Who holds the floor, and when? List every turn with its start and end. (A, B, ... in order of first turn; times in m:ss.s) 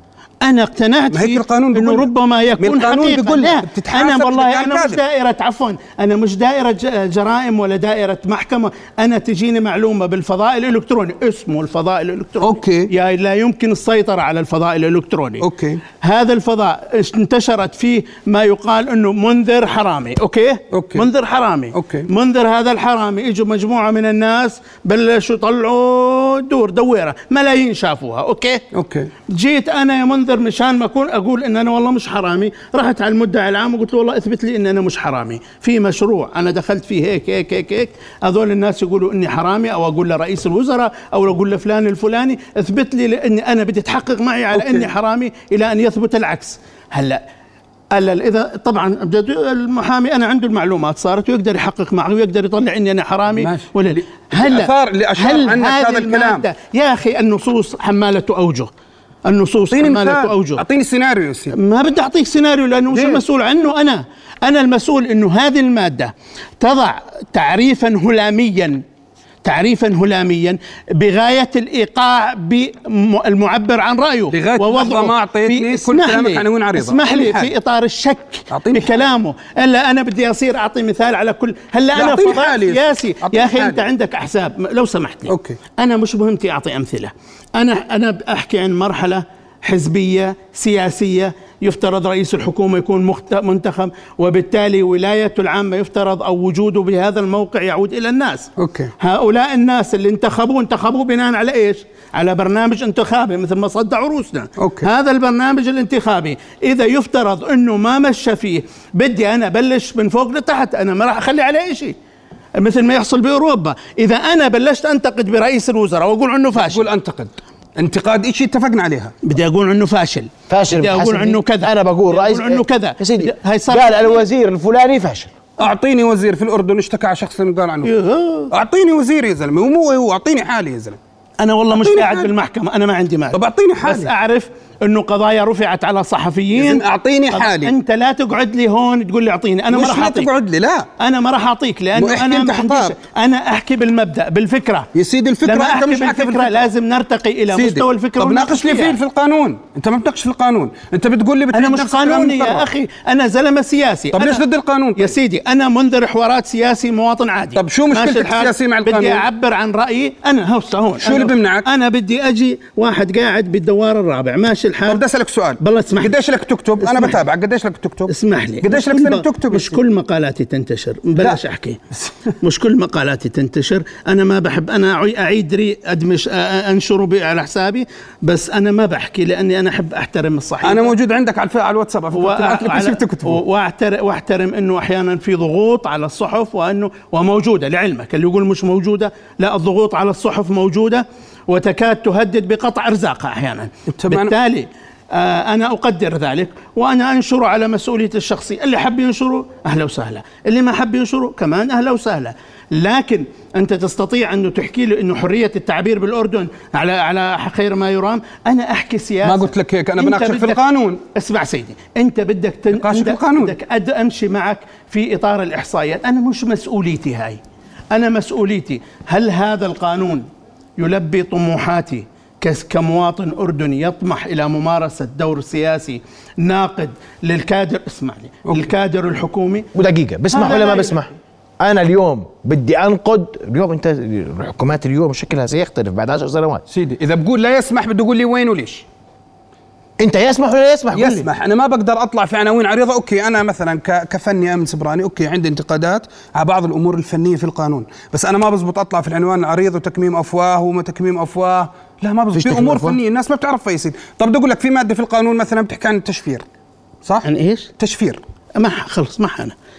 0:00.4-0:15.4 A
0:01.1-0:05.0 B
0:12.4-0:12.9 B
0:15.4-0:15.8 B
0:16.0-0:28.6 A
0:20.7-0:21.1 B
0:21.7-0:22.1 B
0:28.7-0:29.1 B
0:29.3-0:47.2 A
0:44.5-0:44.9 B
0:47.9-0:58.7 A
0:53.3-0:56.5 B
0:59.2-1:00.6 A
0:59.7-1:01.5 B
1:01.5-1:08.8 A
1:02.9-1:03.2 B
1:09.4-1:51.9 A
1:14.3-1:17.5 B
1:18.5-1:18.9 B
1:21.9-1:23.8 B
1:25.3-1:25.6 B
1:38.6-1:38.9 B
1:44.6-1:44.9 B
1:52.6-1:56.8 A
1:56.5-1:59.1 B
1:59.2-2:04.2 A
2:00.5-2:05.3 C
2:05.6-2:07.9 B
2:07.8-2:08.5 A
2:08.5-2:11.0 B
2:11.4-2:20.3 A
2:11.7-2:12.3 B
2:13.3-2:14.1 B
2:16.5-2:17.7 B
2:19.7-2:20.9 B
2:21.0-2:24.9 A
2:21.9-2:22.9 B
2:24.9-2:26.7 B
2:25.4-2:29.0 A
2:27.5-2:32.7 B
2:31.5-2:34.4 A
2:34.1-2:35.2 B
2:35.0-2:45.0 A
2:37.5-2:39.2 B
2:41.0-2:41.7 B
2:44.8-2:49.8 B
2:45.6-2:46.1 A
2:46.8-2:47.2 A
2:48.1-2:51.8 A
2:51.9-2:52.3 B
2:52.4-3:00.9 A
3:00.6-3:03.4 B
3:02.1-3:30.6 A
3:13.9-3:14.3 B
3:29.2-3:31.0 B
3:31.1-3:37.4 A
3:32.7-3:33.6 B
3:37.9-3:40.3 A
3:40.8-3:49.7 A
3:49.7-3:56.6 C
3:50.3-3:51.0 A
3:56.7-3:58.8 B
4:00.0-4:01.3 C
4:00.9-4:16.4 B
4:12.3-4:13.0 C
4:17.2-4:17.7 A
4:17.8-4:18.2 B
4:18.6-4:19.5 A